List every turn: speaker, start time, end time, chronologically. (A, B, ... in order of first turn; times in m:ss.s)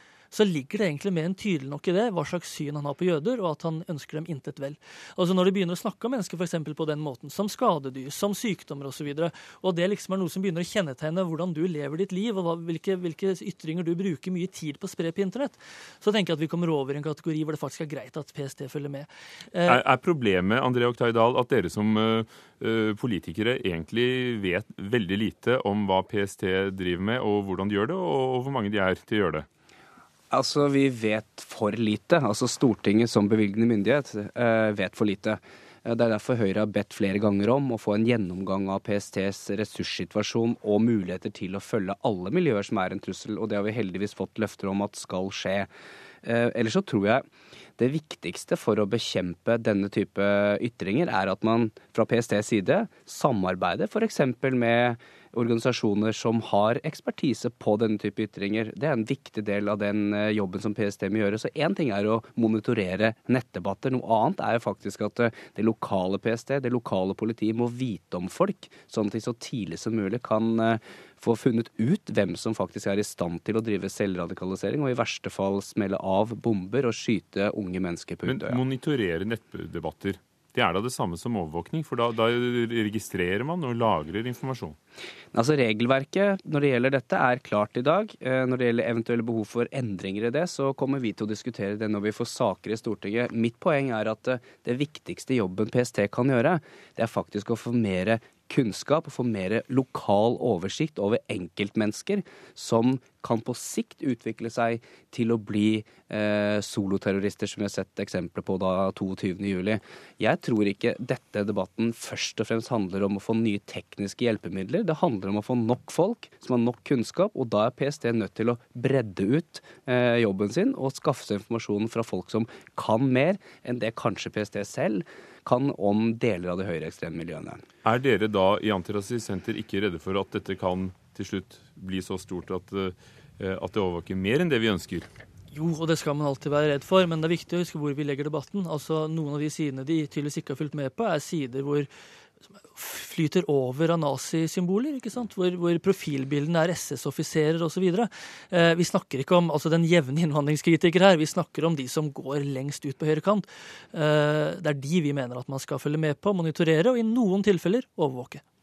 0:00.3-0:19.8 A
0:19.6-0:29.4 B
0:30.3-0:45.7 C
0:46.2-0:47.2 C
0:47.8-1:18.6 C
1:18.2-1:24.8 B
1:25.3-2:07.6 C
2:07.8-2:15.1 B
2:15.5-2:21.9 A
2:22.7-2:38.4 A